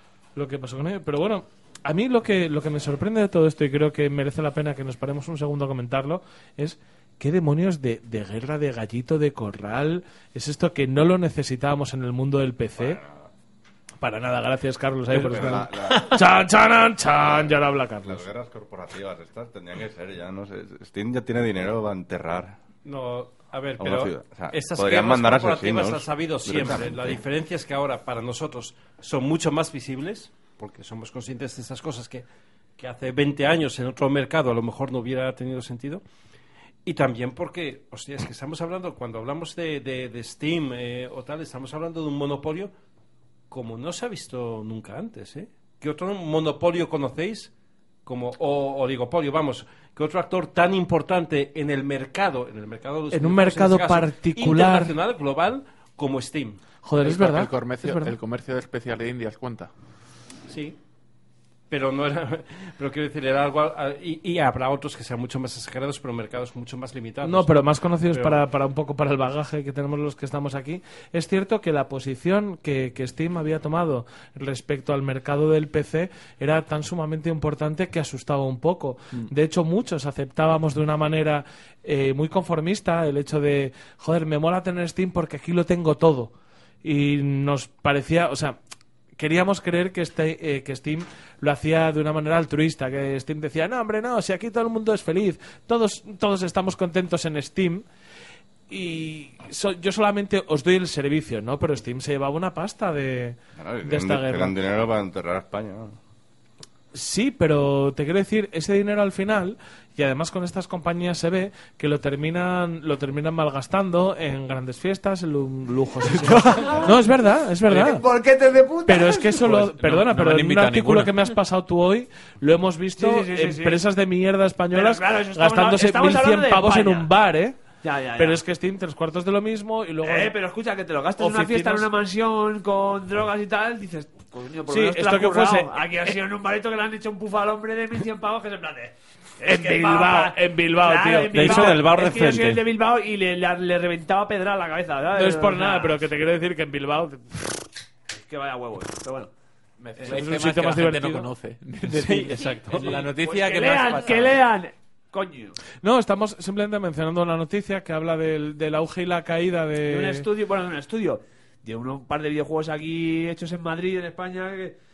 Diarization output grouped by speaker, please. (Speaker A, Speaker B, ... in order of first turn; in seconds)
Speaker A: 0.3-13.0, 14.0-18.2, 53.1-54.9, 56.8-58.1, 67.2-86.3, 86.8-88.6, 89.2-97.8, 98.7-104.5, 106.9-118.0, 118.9-127.6, 128.2-130.3, 131.2-131.9, 134.7-135.8, 139.4-141.8, 145.1-147.7, 150.0-151.3, 155.8-160.3
Speaker B: 12.8-13.3, 15.1-16.3, 17.2-22.6, 23.8-27.2, 103.6-106.0
Speaker C: 22.8-32.2, 32.8-36.0, 36.9-42.7, 43.5-47.5, 48.0-56.6, 60.5-60.8, 61.7-68.4, 141.3-142.6, 151.9-152.9
Speaker D: 57.0-59.7, 119.4-121.1, 149.8-154.4
Speaker E: 116.1-116.9, 117.7-119.5, 123.0-123.8, 124.7-127.1, 127.8-128.4, 130.0-146.0, 148.1-149.3, 152.8-155.6, 159.8-164.8